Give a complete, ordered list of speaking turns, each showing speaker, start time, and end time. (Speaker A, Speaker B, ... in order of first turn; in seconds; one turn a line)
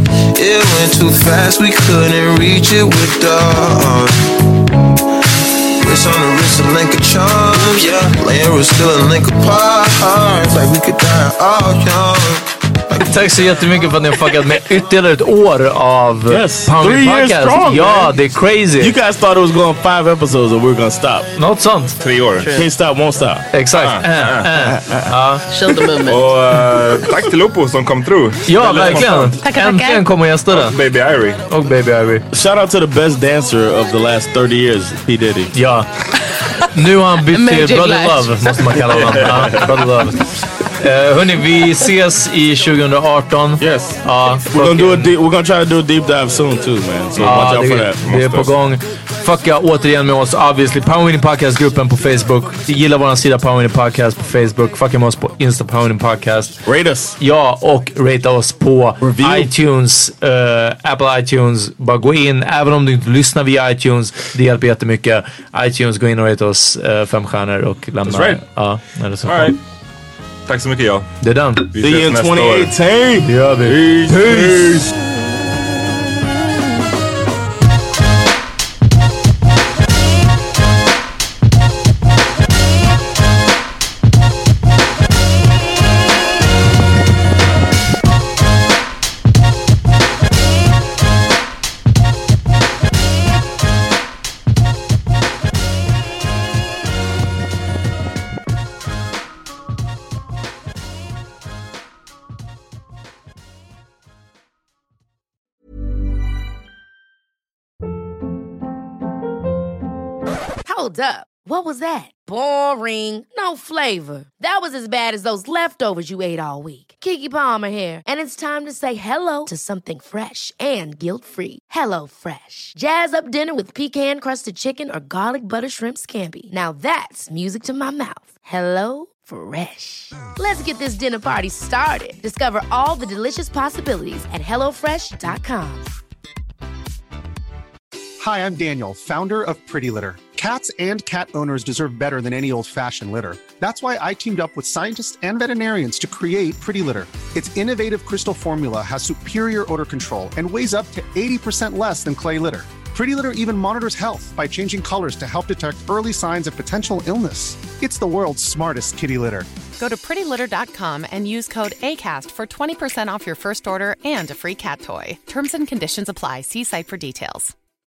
Speaker A: 0.4-4.3
Speaker A: 5.8-13.8
Speaker B: 12.9-19.0
Speaker C: 16.3-18.2
Speaker C: 18.8-21.3
Speaker B: 21.4-22.0
Speaker D: 22.0-22.5
Speaker E: 22.4-22.7
Speaker C: 22.5-23.5
Speaker B: 23.5-25.4
Speaker D: 23.7-24.5
Speaker C: 24.5-25.1
Speaker E: 25.5-26.4
Speaker D: 26.0-29.4
Speaker B: 28.5-30.8
Speaker E: 29.4-30.1
Speaker D: 30.5-31.4
Speaker B: 31.5-32.2
Speaker C: 32.3-35.5
Speaker B: 35.5-35.9
Speaker B: 36.7-45.1
Speaker E: 37.3-38.8
Speaker D: 38.9-39.9
Speaker C: 43.6-48.0
Speaker B: 47.2-56.6
Speaker D: 48.0-48.6
Speaker C: 56.6-57.2
Speaker B: 57.2-69.6
Speaker C: 59.0-59.5
Speaker C: 68.0-68.4
Speaker D: 69.3-69.6
Speaker D: 70.5-71.2
Speaker B: 71.2-71.7
Speaker D: 71.7-72.7
Speaker C: 71.8-74.9
Speaker B: 73.2-74.6
Speaker F: 110.7-135.9
Speaker G: 138.2-159.5
Speaker H: 159.8-167.5